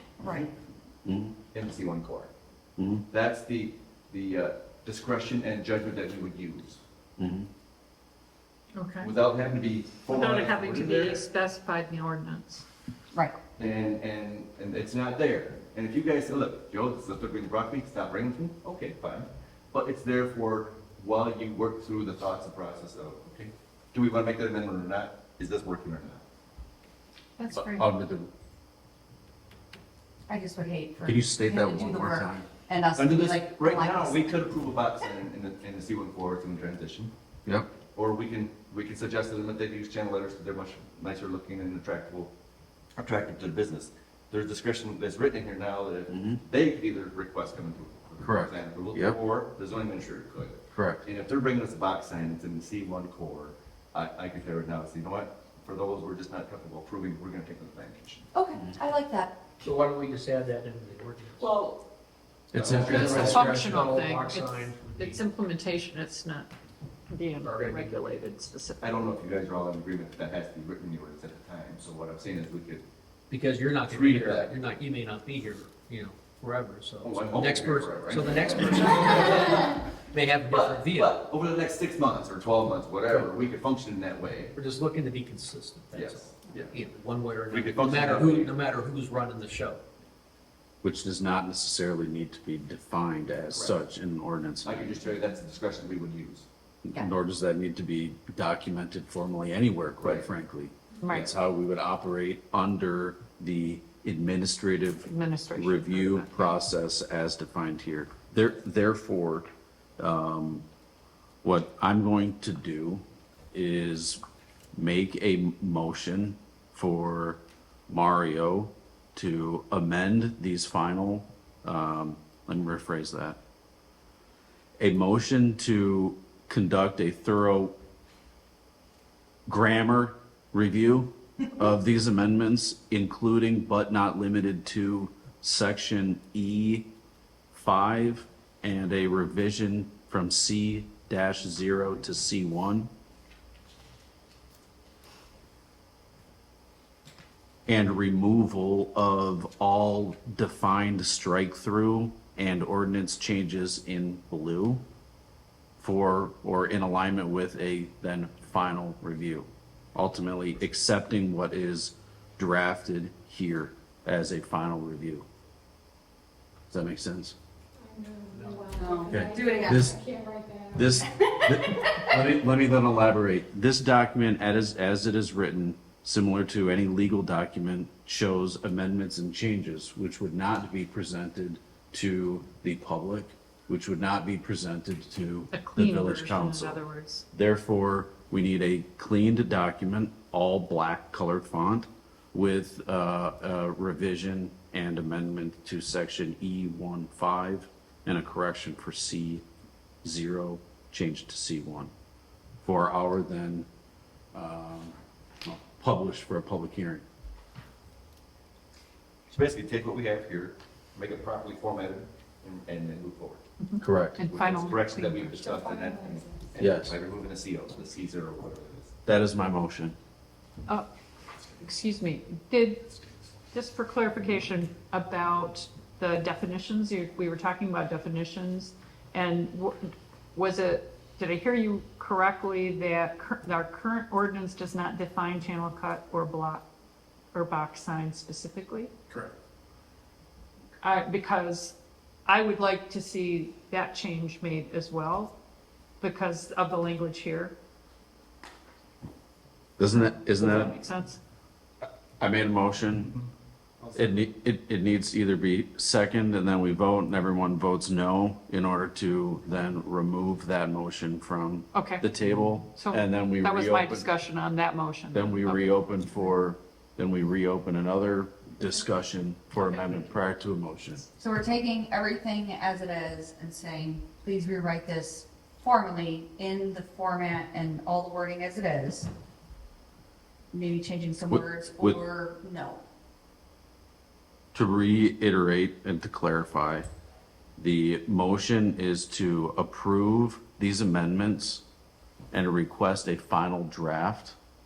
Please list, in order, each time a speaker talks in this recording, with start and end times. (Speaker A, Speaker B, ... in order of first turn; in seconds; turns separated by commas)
Speaker A: 0.2-0.5, Speaker B: 0.2-0.5, Speaker C: 1.1-1.3, Speaker B: 1.5-2.3, Speaker C: 2.8-3.0, Speaker B: 3.1-6.8, Speaker C: 7.2-7.5, Speaker D: 8.7-9.1, Speaker B: 9.0-11.2, Speaker D: 10.1-12.6, Speaker B: 13.6-26.2, Speaker D: 27.4-27.9, Speaker C: 27.5-28.3, Speaker A: 30.3-34.2, Speaker C: 31.1-32.5, Speaker B: 33.0-37.1, Speaker B: 38.0-42.3, Speaker B: 43.0-58.3, Speaker C: 46.1-46.4, Speaker C: 48.2-49.2, Speaker C: 50.8-51.0, Speaker A: 58.3-59.4, Speaker E: 59.6-61.6, Speaker C: 62.5-63.4, Speaker E: 62.5-65.2, Speaker B: 62.6-63.5, Speaker D: 63.1-66.5, Speaker D: 67.1-69.0, Speaker E: 67.4-68.1, Speaker B: 68.8-72.8, Speaker E: 73.3-81.2, Speaker B: 73.9-74.5, Speaker B: 77.0-79.9, Speaker B: 80.5-84.5, Speaker E: 84.5-89.8, Speaker B: 85.9-86.8, Speaker B: 87.5-88.6, Speaker C: 90.8-95.0, Speaker B: 94.6-96.5, Speaker C: 96.8-109.5, Speaker B: 100.0-100.3, Speaker D: 101.0-101.3, Speaker D: 105.1-106.6, Speaker C: 110.0-110.7, Speaker C: 111.4-114.2, Speaker C: 114.8-123.4, Speaker C: 124.8-127.8, Speaker C: 129.5-136.9, Speaker C: 137.5-142.9, Speaker C: 147.7-154.8, Speaker C: 155.8-165.3, Speaker C: 166.7-167.4, Speaker F: 167.9-170.8, Speaker E: 168.3-168.7, Speaker A: 168.7-170.0, Speaker C: 169.1-170.0, Speaker C: 170.7-186.8, Speaker D: 185.5-187.2, Speaker C: 187.3-199.4, Speaker C: 200.0-201.9, Speaker C: 202.6-203.7, Speaker C: 204.3-207.0, Speaker B: 209.3-213.4, Speaker D: 213.6-215.4, Speaker C: 213.8-214.2, Speaker B: 214.2-218.9, Speaker F: 215.5-216.2, Speaker C: 216.6-216.9, Speaker C: 219.1-220.0, Speaker D: 221.6-222.8, Speaker D: 223.5-236.7, Speaker D: 237.3-238.9, Speaker D: 240.8-241.8, Speaker D: 242.3-245.3, Speaker D: 246.0-247.5, Speaker C: 249.8-250.8, Speaker D: 249.9-251.2, Speaker C: 252.2-253.2, Speaker C: 253.9-264.1, Speaker D: 261.7-262.1, Speaker D: 262.8-265.8, Speaker C: 265.1-271.1, Speaker A: 271.2-279.1, Speaker A: 280.5-282.8, Speaker C: 281.3-282.0, Speaker C: 284.5-286.9, Speaker C: 287.6-291.6, Speaker C: 292.3-294.4